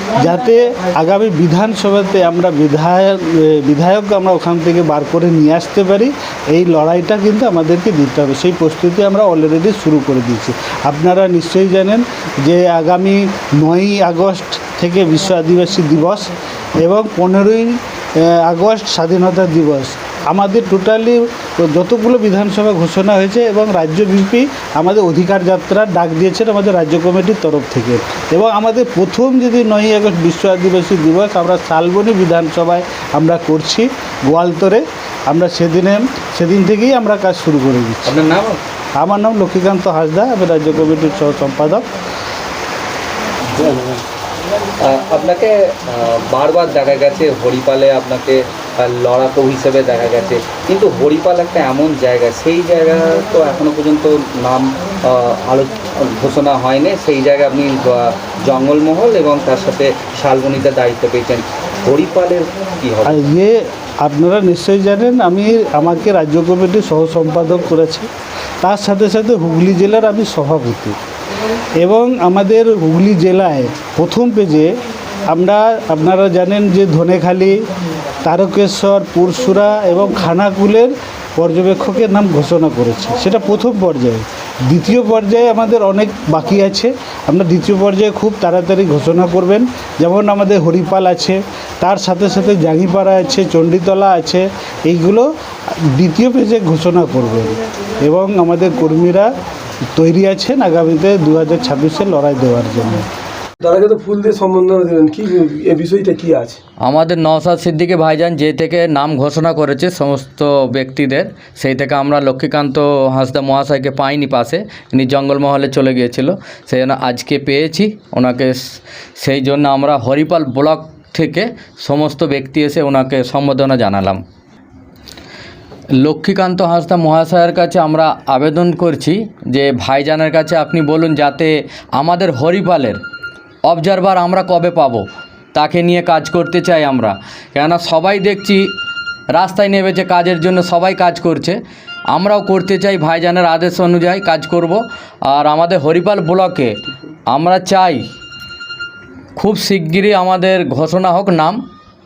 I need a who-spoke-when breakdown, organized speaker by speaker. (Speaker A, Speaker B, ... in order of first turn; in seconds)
Speaker A: 0.1-38.1, 39.0-41.9, 63.1-68.1, 68.6-71.0, 71.8-74.7, 75.3-77.6, 78.2-95.3, 95.8-99.3, 100.0-103.1
Speaker B: 38.1-38.6, 43.6-44.0, 44.8-63.3
Speaker C: 103.6-106.6
Speaker D: 106.8-124.2, 126.0-133.0, 133.6-138.7, 139.3-141.6, 142.1-148.1, 149.4-151.6